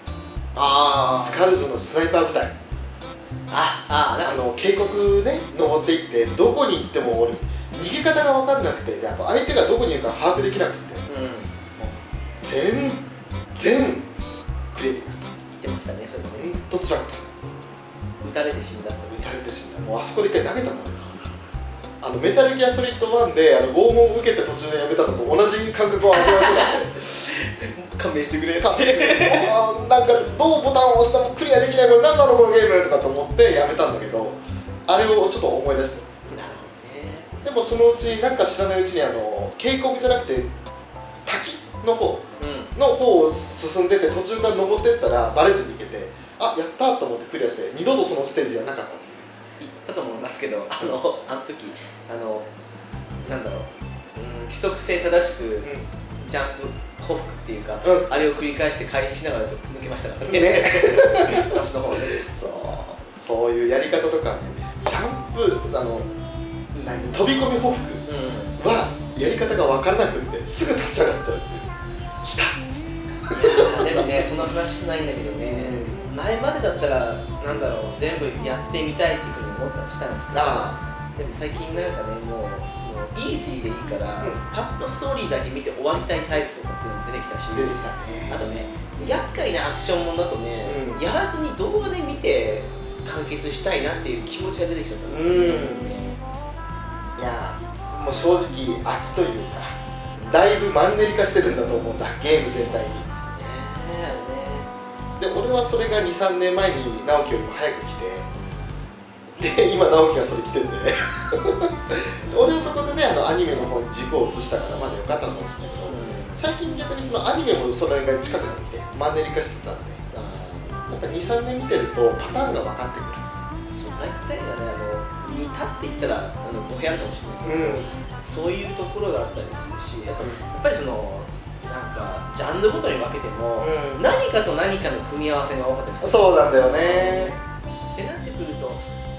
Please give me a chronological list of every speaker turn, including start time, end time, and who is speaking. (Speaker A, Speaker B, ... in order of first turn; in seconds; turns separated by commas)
Speaker A: 0.6-1.5, Speaker B: 1.2-2.6, Speaker A: 3.5-4.9, Speaker B: 4.2-11.0, Speaker A: 11.1-11.6, Speaker B: 12.4-14.1, Speaker B: 14.7-15.3, Speaker A: 15.5-16.6, Speaker B: 16.4-17.2, Speaker A: 18.2-19.3, Speaker B: 19.1-21.3, Speaker B: 22.0-27.4, Speaker A: 26.1-29.6, Speaker B: 28.6-36.2, Speaker A: 36.3-37.3, Speaker B: 37.4-40.5, Speaker B: 41.3-49.2, Speaker A: 42.4-42.7, Speaker A: 49.6-52.5, Speaker A: 53.2-62.2, Speaker B: 57.8-58.1, Speaker B: 60.2-66.1, Speaker B: 66.7-68.0, Speaker A: 68.1-68.6, Speaker B: 68.6-71.7, Speaker B: 72.2-74.4, Speaker A: 73.3-87.8, Speaker B: 75.4-76.1, Speaker B: 80.3-80.8, Speaker B: 87.5-89.2, Speaker A: 88.3-96.2, Speaker B: 90.6-91.0, Speaker B: 95.1-96.0, Speaker B: 97.2-99.8, Speaker B: 100.3-103.0, Speaker A: 102.4-104.7, Speaker B: 105.2-108.3, Speaker A: 108.3-108.7, Speaker B: 109.3-120.0, Speaker A: 115.9-116.4, Speaker A: 120.1-120.9, Speaker B: 120.9-123.2, Speaker A: 123.7-137.4, Speaker B: 127.4-127.9, Speaker B: 133.6-134.1, Speaker B: 136.0-137.3, Speaker A: 138.0-138.8